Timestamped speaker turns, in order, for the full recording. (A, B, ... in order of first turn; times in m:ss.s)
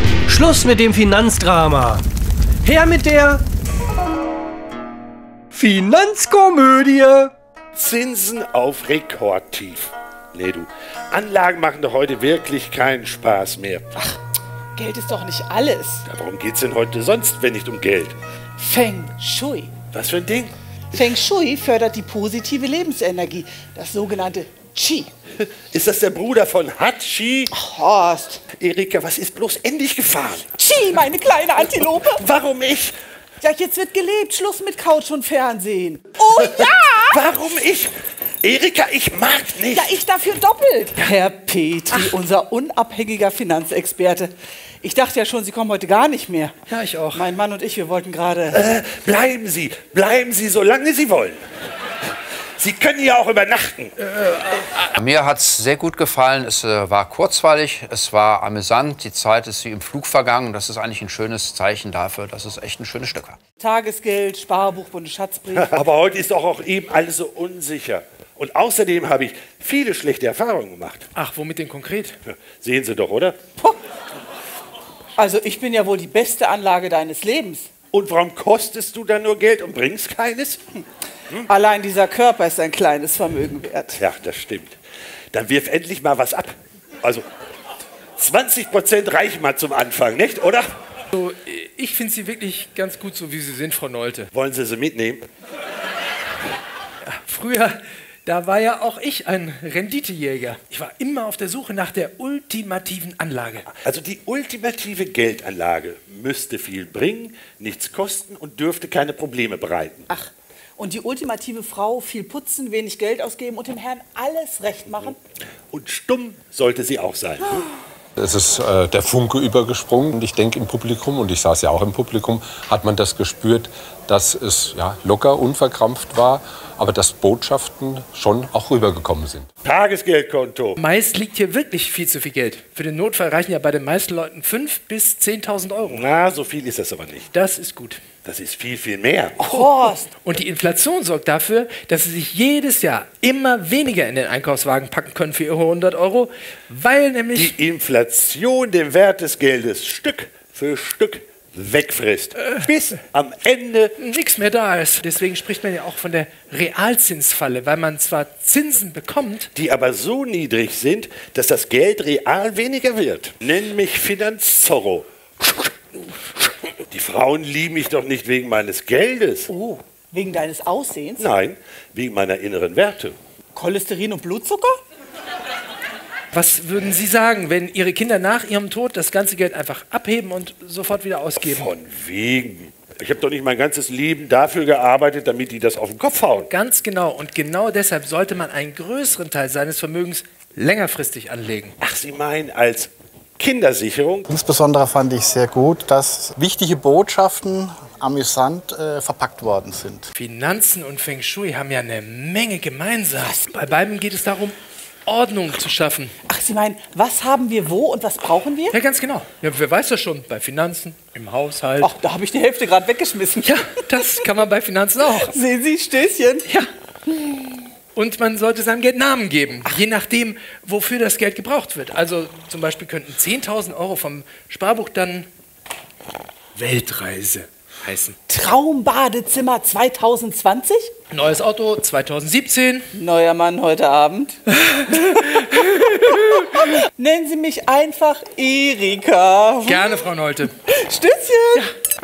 0:00.3-0:02.0 A
0:02.6-0:03.4 A
0:05.5-0:07.3 A
0:07.7-0:13.8 B
0:14.8-0:16.0 C
0:16.1-0:18.2 B
0:18.6-0:19.7 C
0:19.9-0:20.6 B
0:20.9-0:25.1 C
0:25.4-0:27.5 B
0:27.5-0:28.4 C
0:28.6-0:30.5 B
0:30.5-0:32.2 C
0:32.1-0:33.0 B
0:33.4-0:37.2 C
0:36.5-0:39.9 B
0:39.7-0:46.6 C
0:46.7-0:47.3 D
0:47.1-0:48.6 C
0:48.5-0:51.4 B
0:52.6-0:53.9 B
0:54.0-0:55.0 D
0:55.0-1:03.4 E
1:03.6-1:05.8 C
1:05.5-1:11.1 B
1:11.2-1:12.2 D
1:12.3-1:13.4 B
1:15.2-1:17.7 C
1:17.9-1:20.6 B
1:21.5-1:24.0 C
1:24.0-1:24.8 B
1:25.3-1:27.2 B
1:28.2-1:30.7 B
1:31.1-1:34.3 D
1:34.3-1:35.3 B
1:37.1-1:43.7 D
1:43.7-1:50.1 B
1:50.1-1:55.2 C
1:55.7-1:57.7 B
1:58.2-2:09.5 F
2:09.6-2:10.8 B
2:10.8-2:16.1 D
2:15.8-2:17.3 B
2:17.3-2:18.0 D
2:18.2-2:19.7 B
2:19.4-2:20.1 C
2:20.2-2:27.6 D
2:27.3-2:33.9 B
2:34.0-2:39.5 D
2:39.5-2:45.1 B
2:46.9-2:49.5 B
2:49.5-2:51.3 C
2:51.2-2:53.2 B
2:53.5-2:54.8 C
2:56.3-3:01.7 D
3:01.4-3:06.5 B
3:06.5-3:11.8 D
3:11.8-3:14.3 B
3:14.3-3:20.1 G
3:20.2-3:26.1 D
3:23.2-3:23.5 C
3:26.2-3:28.8 C
3:28.7-3:31.9 D
3:31.8-3:33.6 C
3:33.4-3:35.3 D
3:35.2-3:36.5 C
3:38.0-3:45.3 D
3:46.6-3:48.2 D
3:48.3-3:50.9 C
3:51.1-3:52.9 D
3:52.9-3:54.4 C
3:54.7-3:56.4 D
3:56.5-4:00.1 C
3:59.7-4:00.5 D
4:00.6-4:01.7 C